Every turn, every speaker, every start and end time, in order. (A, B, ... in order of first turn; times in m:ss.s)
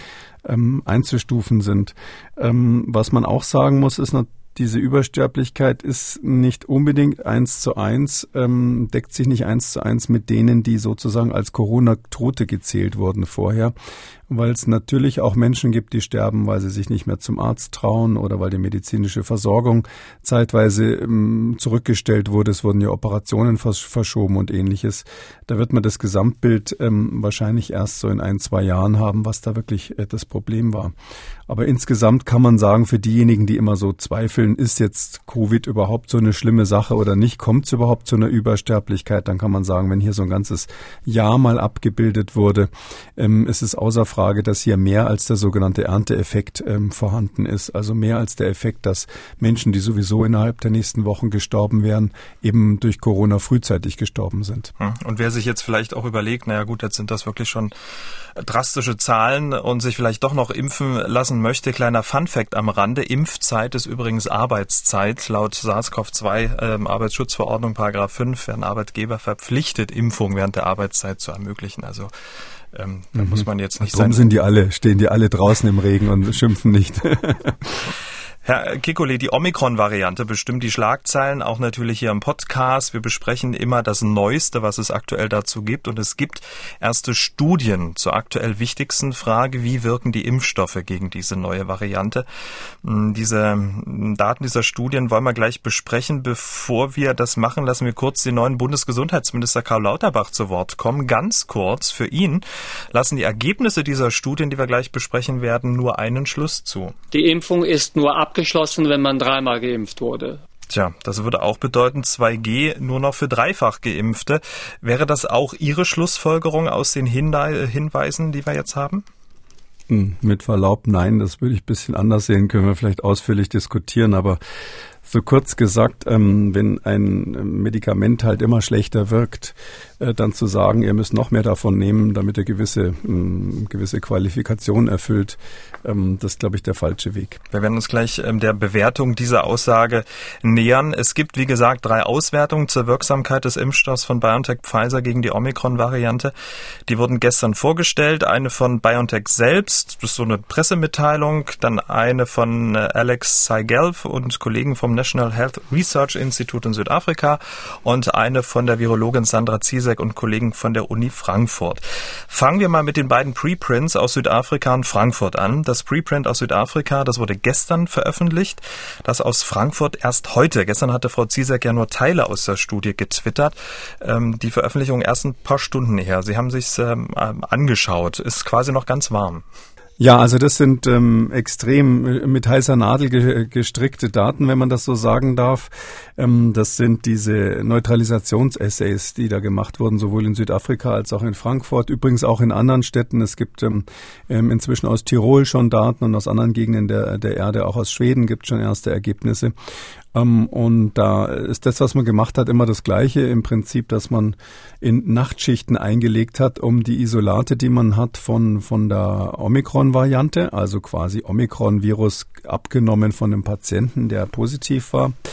0:00.4-0:13.7 A
0:14.3-0:30.9 A
0:31.5-0:54.7 A
0:54.8-0:57.7 B
0:58.4-1:12.1 B
1:12.7-1:14.2 B
1:13.2-1:17.9 A
1:18.4-1:32.2 B
1:32.8-1:47.0 B
1:47.1-1:50.4 C
1:50.7-1:59.0 B
1:59.9-2:04.4 A
2:05.0-2:17.4 A
2:17.5-2:26.3 B
2:26.9-2:59.4 B
3:00.0-3:19.5 A
3:20.1-3:35.2 A